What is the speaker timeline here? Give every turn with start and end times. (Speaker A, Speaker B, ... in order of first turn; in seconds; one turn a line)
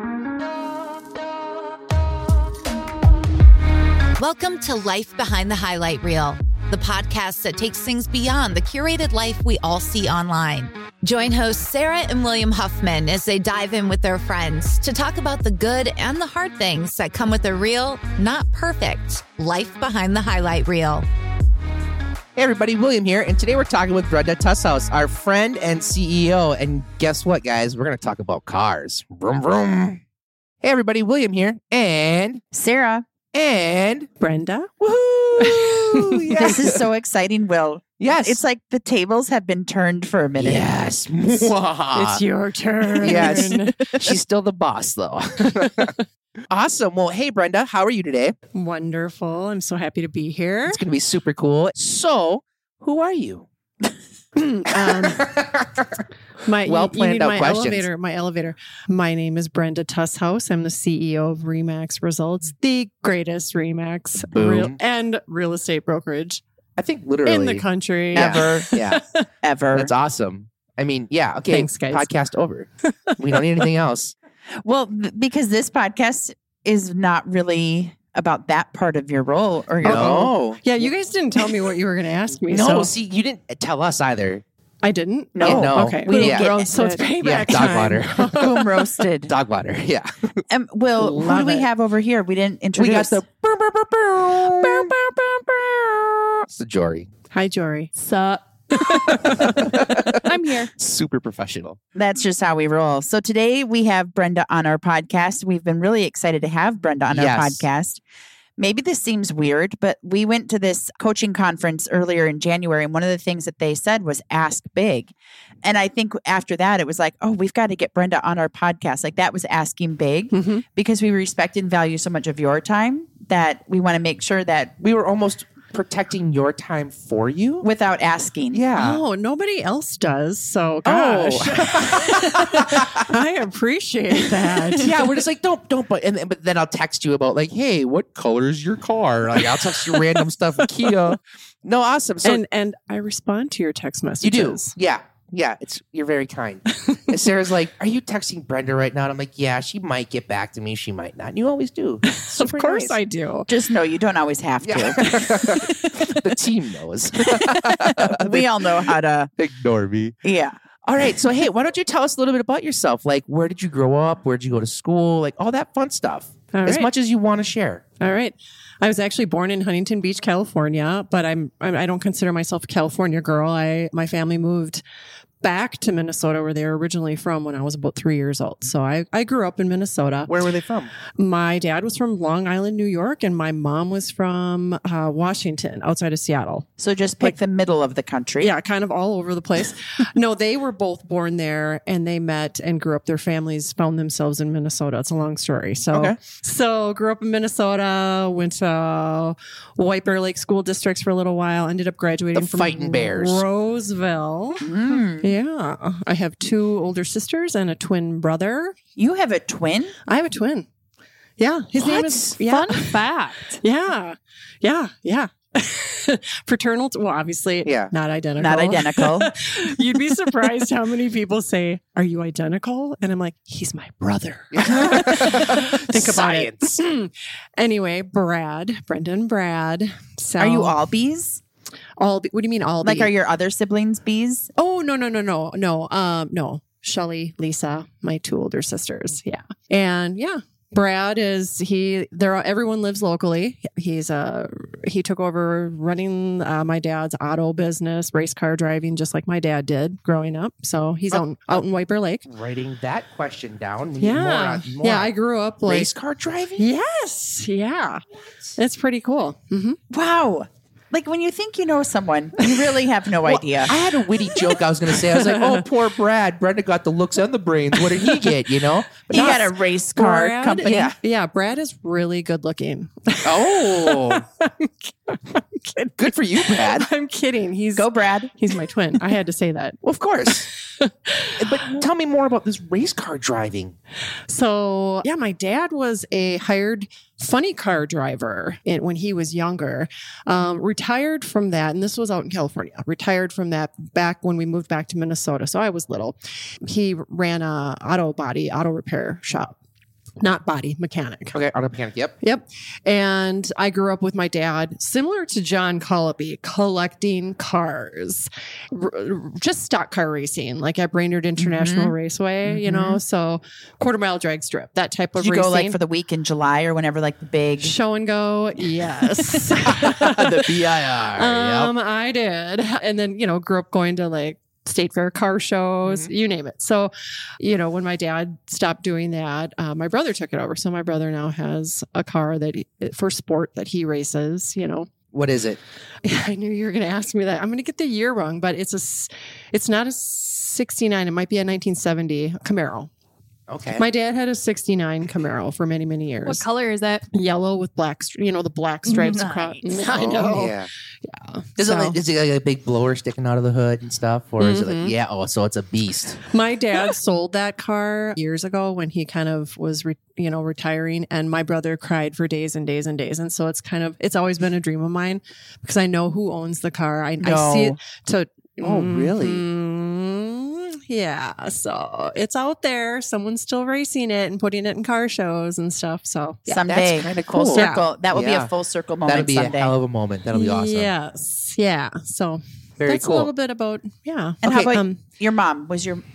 Speaker A: 4.2-21.1
Speaker B: 22.4-30.0
Speaker B: 30.6-32.4
Speaker C: 32.5-33.1
Speaker B: 33.3-34.1
Speaker D: 34.2-34.7
Speaker B: 34.8-36.8
Speaker D: 35.4-36.3
Speaker C: 36.4-40.7
Speaker B: 38.0-38.4
Speaker B: 40.4-42.2
Speaker D: 42.0-44.0
Speaker C: 43.0-43.4
Speaker B: 43.0-46.0
Speaker D: 45.6-45.9
Speaker B: 46.5-48.4
Speaker D: 48.5-50.8
Speaker B: 50.7-53.5
Speaker D: 54.4-55.3
Speaker B: 54.7-56.0
Speaker D: 56.5-66.4
Speaker B: 56.6-57.9
Speaker B: 64.2-64.8
Speaker B: 66.8-69.0
Speaker D: 67.2-69.2
Speaker C: 68.2-68.7
Speaker C: 69.4-69.9
Speaker B: 69.7-74.1
Speaker D: 71.5-72.1
Speaker D: 73.1-73.7
Speaker C: 74.6-80.3
Speaker B: 79.8-80.6
Speaker D: 79.8-82.9
Speaker B: 82.5-84.4
Speaker D: 84.8-88.9
Speaker C: 85.3-86.8
Speaker B: 85.4-86.5
Speaker E: 86.1-87.0
Speaker B: 87.2-88.5
Speaker C: 88.3-89.3
Speaker B: 89.3-90.4
Speaker C: 90.5-93.2
Speaker D: 91.0-91.7
Speaker B: 92.8-97.1
Speaker D: 94.4-95.1
Speaker D: 97.3-97.9
Speaker E: 98.0-100.7
Speaker B: 99.1-101.8
Speaker D: 99.2-99.8
Speaker C: 102.0-108.0
Speaker B: 107.1-107.7
Speaker C: 108.6-115.1
Speaker C: 115.6-124.7
Speaker D: 120.3-120.7
Speaker B: 124.8-127.7
Speaker C: 127.6-128.6
Speaker B: 128.5-129.0
Speaker D: 128.8-135.0
Speaker B: 130.8-133.1
Speaker B: 134.8-142.4
Speaker D: 139.3-141.1
Speaker D: 142.2-144.7
Speaker B: 144.2-153.0
Speaker D: 152.1-153.5
Speaker C: 153.5-155.1
Speaker B: 154.6-158.7
Speaker C: 157.3-159.3
Speaker B: 159.4-160.2
Speaker C: 160.2-160.6
Speaker B: 160.8-167.8
Speaker D: 166.5-166.9
Speaker D: 168.0-174.8
Speaker D: 175.4-180.3
Speaker B: 180.3-180.9
Speaker D: 181.2-186.7
Speaker C: 186.8-188.5
Speaker D: 188.4-204.7
Speaker B: 202.3-203.4
Speaker C: 204.6-205.3
Speaker D: 205.2-208.8
Speaker C: 209.0-209.9
Speaker D: 210.1-210.7
Speaker D: 211.4-212.9
Speaker B: 211.8-212.4
Speaker E: 212.4-213.6
Speaker D: 213.6-230.8
Speaker B: 217.7-217.9
Speaker C: 218.4-219.3
Speaker B: 224.5-226.8
Speaker C: 230.4-231.4
Speaker D: 232.0-233.1
Speaker C: 232.8-234.5
Speaker D: 234.6-252.3
Speaker B: 251.1-251.6
Speaker B: 252.2-255.1
Speaker D: 254.0-255.9
Speaker B: 255.7-256.7
Speaker D: 256.6-258.0
Speaker D: 258.6-259.8
Speaker C: 259.9-263.7
Speaker D: 263.3-265.7
Speaker B: 263.6-269.4
Speaker D: 267.7-268.4
Speaker D: 269.1-281.8
Speaker C: 269.1-270.9
Speaker B: 270.7-270.9
Speaker B: 273.2-274.2
Speaker B: 276.0-276.9
Speaker C: 277.8-278.3
Speaker B: 279.8-280.5
Speaker B: 281.4-283.8
Speaker D: 284.3-299.6
Speaker D: 300.2-301.4
Speaker B: 301.3-302.1
Speaker D: 302.2-315.8
Speaker C: 311.4-311.9
Speaker B: 312.5-312.9
Speaker C: 315.2-317.7
Speaker D: 317.6-334.9
Speaker C: 319.3-319.6
Speaker B: 319.6-321.7
Speaker B: 325.9-326.1
Speaker B: 335.1-335.6
Speaker D: 336.0-342.9
Speaker B: 343.5-343.9
Speaker D: 343.7-346.4
Speaker E: 346.3-347.1
Speaker D: 347.1-352.0
Speaker E: 348.9-349.8
Speaker B: 349.9-350.7
Speaker B: 351.6-356.2
Speaker D: 354.4-354.9
Speaker D: 356.3-376.6
Speaker B: 367.2-367.8
Speaker B: 368.6-369.4
Speaker C: 376.5-379.7
Speaker B: 376.7-378.5
Speaker D: 377.5-377.9
Speaker B: 379.1-380.9
Speaker D: 380.3-385.0
Speaker B: 382.8-383.3
Speaker C: 384.4-386.0